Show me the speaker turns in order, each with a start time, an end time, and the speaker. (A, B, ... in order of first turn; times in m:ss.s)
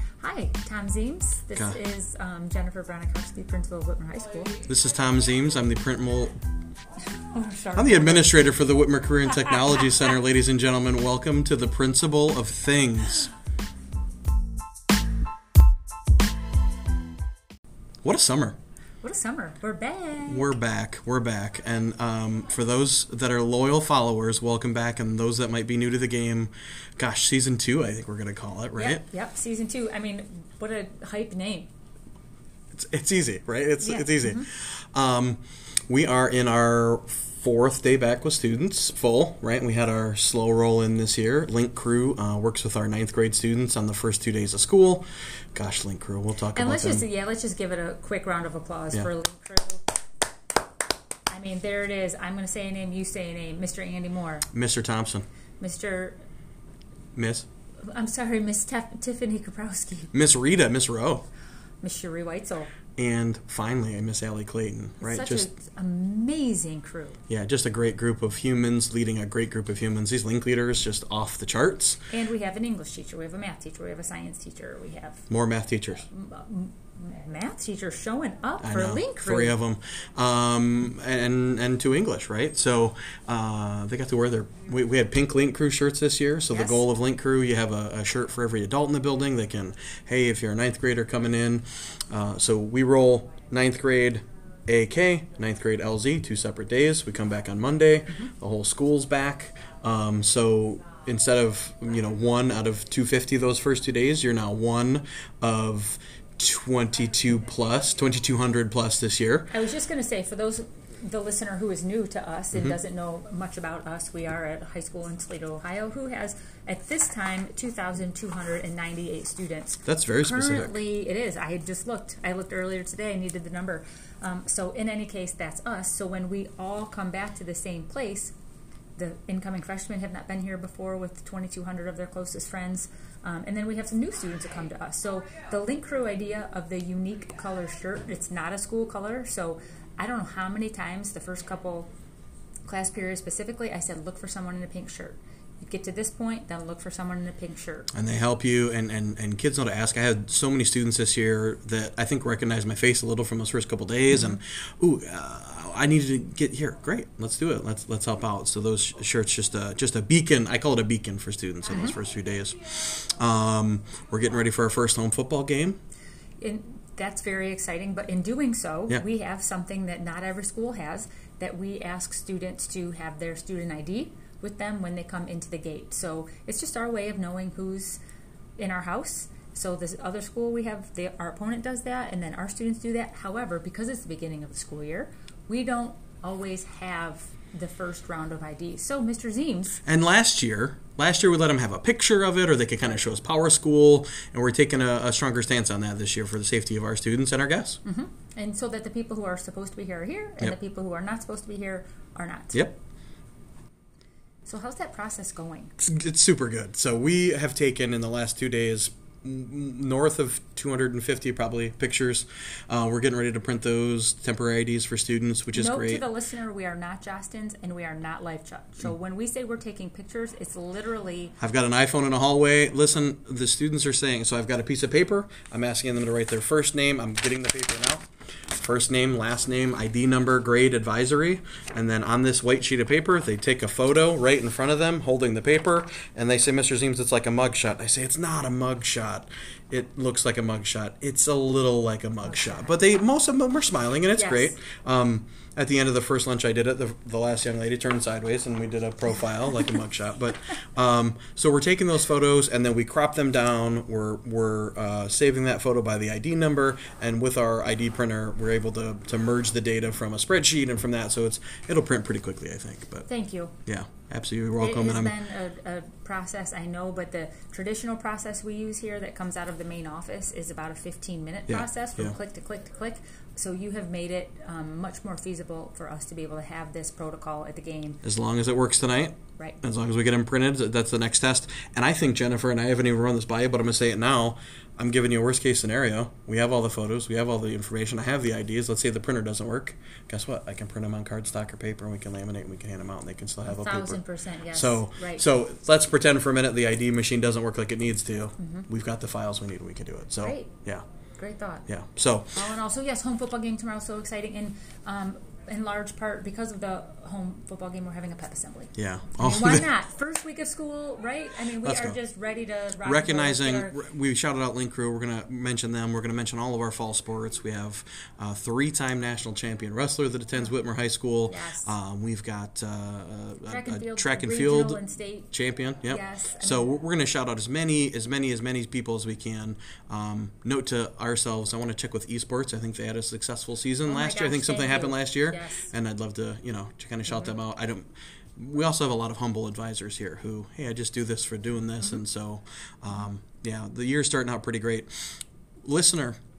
0:00.2-0:04.6 A
0:04.6-0:06.4 B
0:07.0-0:08.4 A
0:07.8-0:13.3 B
0:09.3-0:10.2 A
0:18.0-0:18.6 B
0:19.0-0:20.5 A
0:20.3-0:29.0 B
0:28.8-0:31.7 A
0:32.7-0:47.0 B
0:33.8-0:34.5 A
0:46.5-0:49.8 A
0:51.3-0:54.5 A
0:54.5-0:55.3 B
0:55.6-0:56.2 A
0:57.2-0:57.5 B
0:57.9-1:00.1 A
1:00.1-1:01.3 B
1:01.8-1:02.7 A
1:03.0-1:05.5 B
1:05.0-1:07.2 A
1:07.3-1:12.0 B
1:12.1-1:15.3 A
1:15.3-1:16.1 B
1:16.1-1:19.6 A
1:18.6-1:49.5 B
1:26.5-1:26.8 A
1:49.5-2:08.3 A
1:59.8-2:00.8 B
2:09.0-2:21.9 A
2:22.7-2:27.9 A
2:27.9-2:45.8 B
2:34.1-2:34.4 A
2:46.4-2:58.0 A
2:58.6-3:09.8 A
3:09.8-3:17.8 B
3:17.8-3:22.6 A
3:24.5-3:25.8 A
3:25.8-3:36.0 B
3:35.5-3:41.4 A
3:41.4-4:23.1 B
4:02.3-4:02.7 A
4:04.2-4:04.6 A
4:23.1-4:23.6 A
4:23.7-4:25.2 B
4:24.6-4:38.0 A
4:31.5-4:32.2 B
4:38.0-5:00.8 B
4:53.5-4:55.2 A
4:58.4-4:58.7 A
5:00.2-5:00.5 A
5:01.2-5:01.6 A
5:01.7-5:02.4 B
5:02.4-5:13.8 A
5:08.8-5:09.7 B
5:11.6-5:12.0 B
5:12.8-5:46.2 B
5:21.3-5:21.7 A
5:23.5-5:25.3 A
5:25.9-5:26.7 A
5:33.9-5:35.7 A